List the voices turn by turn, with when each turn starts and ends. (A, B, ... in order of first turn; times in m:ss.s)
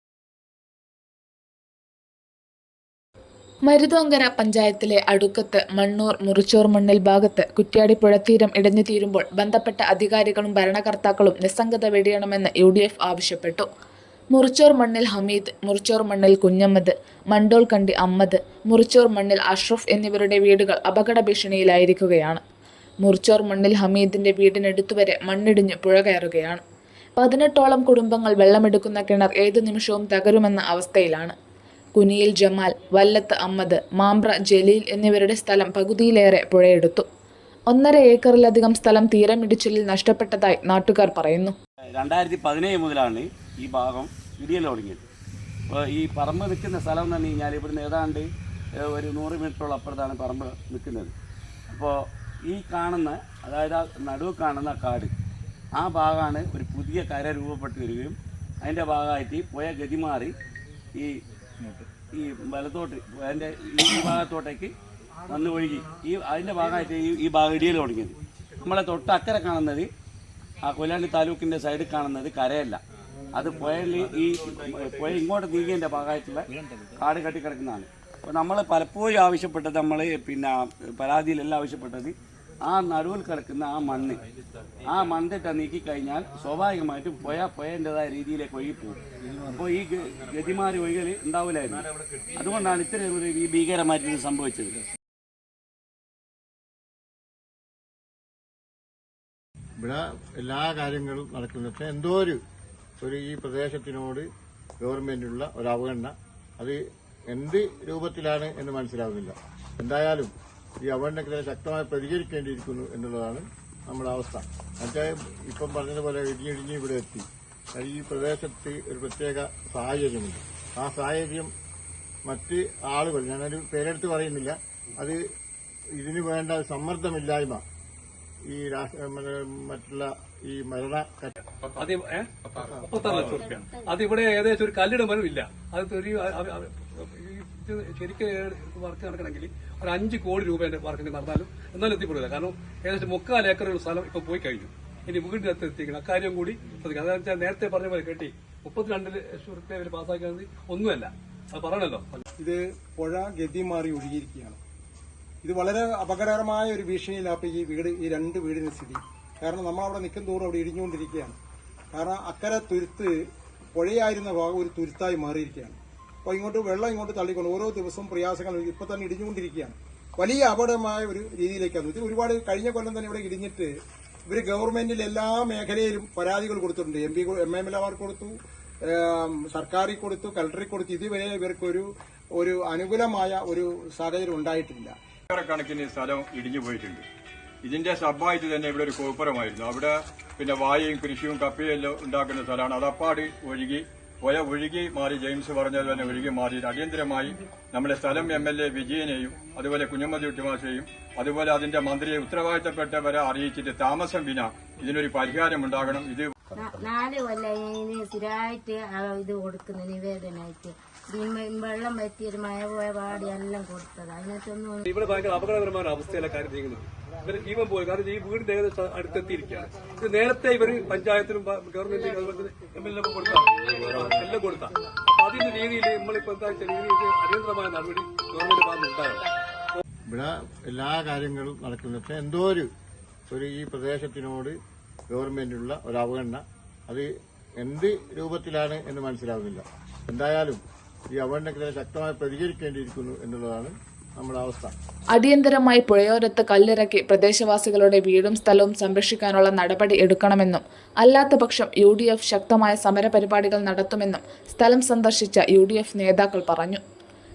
0:03.6-0:13.6 A
0:14.3-0:22.4 A
0:23.0-0:26.6 A
0:27.2-0:31.3 A
0:31.9-0:37.0 A
0:37.7-0:41.5 A
0:41.9-0:45.0 B
0:45.7-0:48.3 B
0:48.9-0:51.1 B
0:52.4-0:55.1 B
0:55.7-1:00.4 B
1:02.1-1:04.7 B
1:05.3-1:09.9 B
1:10.6-1:12.8 B
1:13.3-1:24.2 B
1:24.9-1:34.8 B
1:39.8-1:42.4 C
1:43.0-1:44.2 C
1:44.8-1:46.8 C
1:47.3-1:50.3 C
1:50.8-2:01.5 C
2:02.2-2:05.2 C
2:06.0-2:07.6 C
2:08.5-2:11.3 C
2:11.7-2:32.2 D
2:13.1-2:14.0 E
2:32.4-2:34.6 F
2:35.4-2:41.4 F
2:41.9-2:43.1 F
2:43.7-2:53.7 F
2:54.3-2:58.3 F
2:58.9-3:01.8 F
3:02.4-3:04.9 F
3:05.3-3:07.0 G
3:07.6-3:26.3 G
3:26.5-3:34.8 E
3:34.8-3:49.2 D
3:50.1-3:52.7 C
3:53.3-3:54.6 C
3:55.1-3:57.1 C
3:57.6-4:00.6 C
4:01.1-4:04.7 C
4:05.1-4:16.8 A